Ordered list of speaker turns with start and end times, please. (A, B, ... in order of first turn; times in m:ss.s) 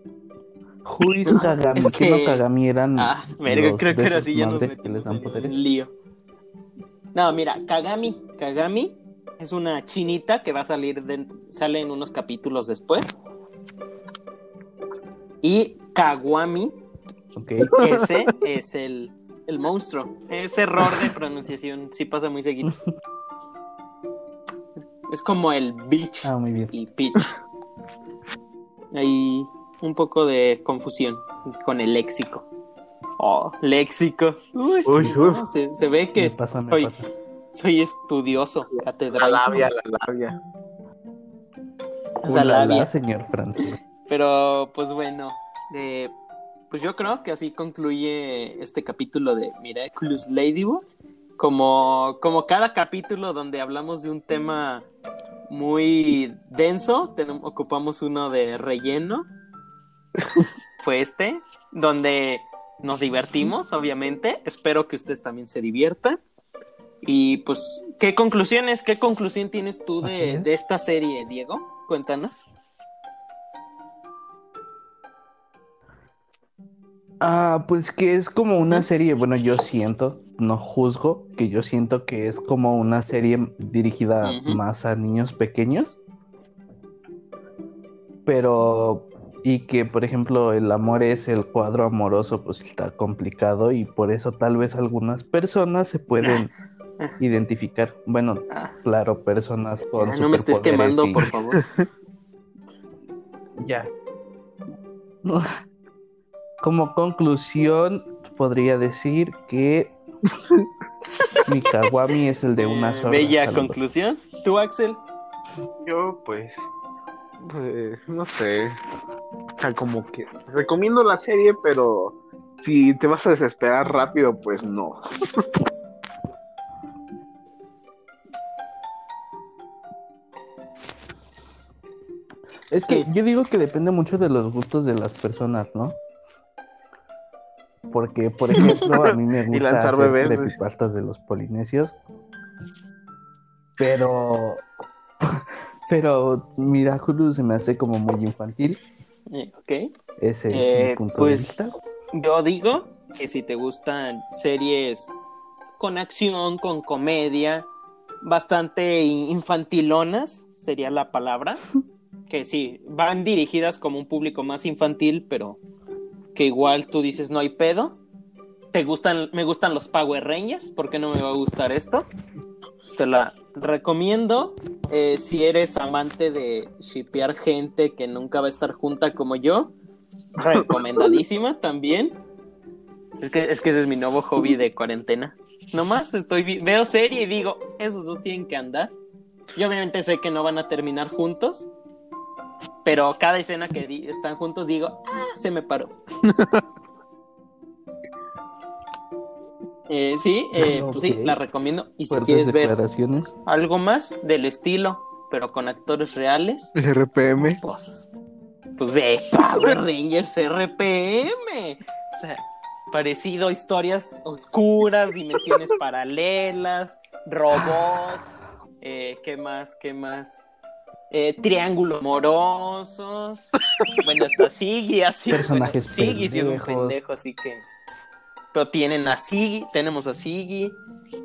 0:00.8-0:05.5 A
0:01.3-0:02.4 B
0:03.0-0:05.9 B
0:07.1-0:13.2 B
0:15.4-0:16.8 B
0:17.3-0:17.7 A
0:17.7-0:22.7 B
0:25.1-0:27.3 B
0:26.2-0:26.7 A
0:28.9-0:32.5 B
0:33.2-0:36.9 B
0:34.9-0:35.4 C
0:36.2-0:37.1 A
0:37.5-0:39.7 B
0:39.1-0:40.4 C
0:42.2-0:42.9 B
0:42.3-0:43.8 A
0:44.1-0:46.2 B
0:46.7-0:54.9 B
0:55.5-0:59.3 B
1:00.8-1:06.2 B
1:07.0-1:12.4 B
1:10.0-1:10.5 A
1:17.2-1:26.0 A
1:24.2-1:24.6 B
1:28.3-1:36.5 A
1:36.2-1:36.5 B
1:37.2-1:41.3 A
1:40.0-1:41.6 B
1:43.6-1:43.9 A
1:45.2-1:45.6 A
1:46.6-1:50.0 A
1:51.5-1:53.8 A
1:52.6-1:55.0 B
1:55.8-1:56.7 C
1:57.4-1:58.8 C
1:59.6-2:05.4 C
2:12.7-2:16.0 A
2:17.9-2:22.0 A
2:18.9-2:20.6 C
2:23.8-2:24.6 A
2:25.2-2:28.8 A
2:29.3-2:29.9 B
2:30.2-2:31.7 A
2:30.5-2:31.5 B
2:32.1-2:35.2 B
2:35.8-2:37.7 B
2:38.2-2:41.6 B
2:42.3-2:45.6 B
2:46.4-2:48.0 B
2:48.7-2:52.1 B
2:53.0-2:59.7 B
3:00.4-3:02.2 B
3:00.5-3:00.8 C
3:03.2-3:08.9 B
3:09.5-3:11.7 B
3:12.8-3:15.9 B
3:16.2-3:16.6 C
3:19.9-3:22.7 B
3:20.6-3:21.4 A
3:22.1-3:23.4 A
3:23.5-3:26.7 B
3:26.8-3:27.6 C
3:27.4-3:28.1 B
3:28.8-3:40.5 B
3:41.1-3:47.6 B
3:45.3-3:47.0 A
3:48.5-3:50.8 B